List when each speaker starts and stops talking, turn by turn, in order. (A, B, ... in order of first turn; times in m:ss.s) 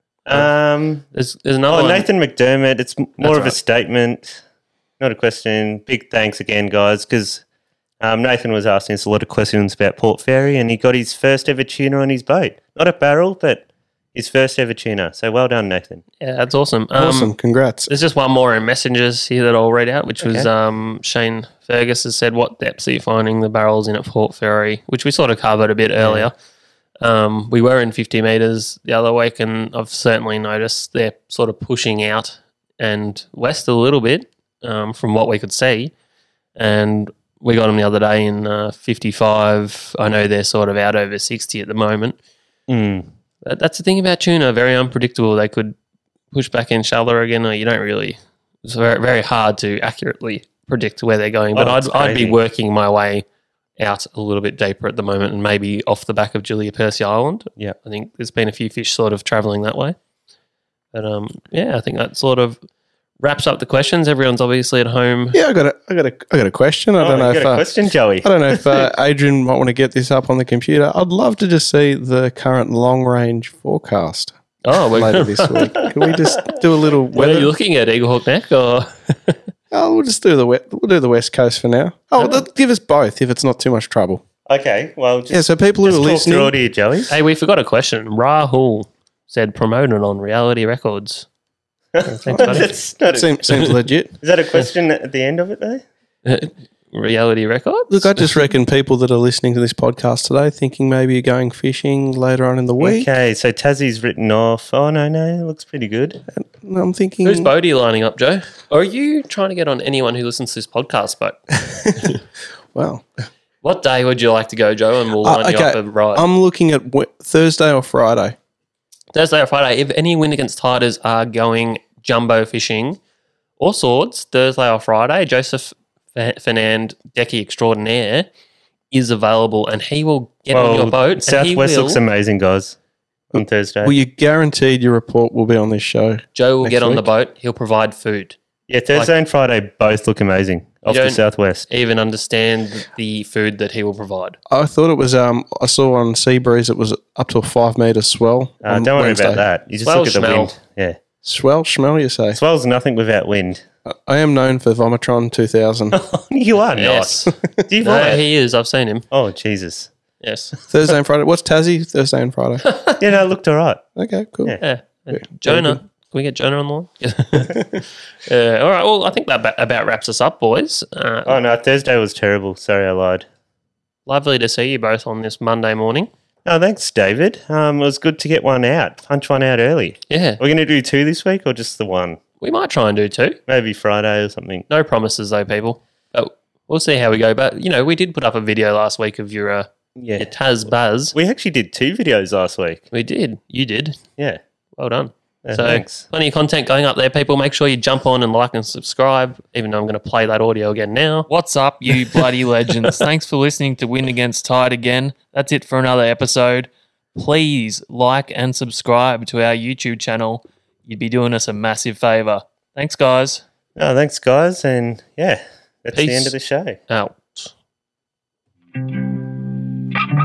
0:00.3-0:01.1 A
0:01.1-0:02.1 B
0:01.7-0:04.4 A
0:03.2-0:03.6 B
0:05.0-0:07.4 A
0:08.0-0:16.0 A
0:16.2-0:17.3 B
0:17.0-0:17.9 C
0:17.9-0:26.3 B
0:26.0-0:26.3 A
0:27.0-0:35.9 B
0:36.6-0:42.2 B
0:42.7-0:43.1 A
0:43.4-0:45.8 B
0:46.3-0:53.2 B
0:51.6-0:52.4 A
0:53.8-1:00.0 B
1:00.9-1:02.6 B
1:03.2-1:05.4 B
1:05.3-1:07.7 C
1:07.0-1:08.9 A
1:08.2-1:14.3 C
1:14.6-1:15.9 B
1:14.9-1:17.5 C
1:17.1-1:19.4 B
1:19.7-1:24.2 C
1:24.5-1:27.1 A
1:25.3-1:26.5 C
1:27.1-1:31.3 B
1:31.9-1:35.8 A
1:32.0-1:32.7 B
1:32.3-1:34.2 C
1:36.2-1:38.4 B
1:37.9-1:43.1 C
1:42.8-1:46.2 A
1:46.3-1:47.5 C
1:47.2-1:51.4 B
1:51.6-1:52.2 C
1:52.7-1:53.1 C
1:53.6-1:56.2 B
1:55.2-1:58.4 C
1:59.1-2:03.0 B
2:03.6-2:08.3 B
2:08.9-2:12.0 B
2:10.5-2:12.8 A
2:13.3-2:14.0 A
2:13.4-2:17.0 C
2:16.4-2:18.4 B
2:18.7-2:21.7 A
2:20.9-2:24.4 B
2:24.5-2:29.4 C
2:28.6-2:31.0 A
2:29.8-2:30.5 B
2:31.2-2:32.4 C
2:32.3-2:33.6 A
2:33.9-2:36.0 C
2:35.9-2:38.3 A
2:36.8-2:39.0 B
2:39.1-2:39.9 A
2:40.2-2:40.5 B
2:40.7-2:42.6 C
2:43.0-2:43.8 A
2:44.0-2:44.6 C
2:44.6-2:47.7 B
2:45.1-2:45.8 C
2:48.2-2:51.4 B
2:51.3-2:53.3 A
2:54.1-2:56.1 B
2:56.4-3:02.2 A
3:00.1-3:00.4 B
3:02.4-3:03.4 B
3:03.5-3:04.7 A
3:04.7-3:11.2 B
3:10.0-3:10.3 A
3:11.1-3:12.9 A
3:12.9-3:14.0 B
3:14.8-3:21.3 B
3:15.4-3:16.1 A
3:21.3-3:33.4 D
3:21.8-3:23.1 B
3:33.8-3:36.8 A
3:35.9-3:36.4 B
3:36.9-3:37.5 B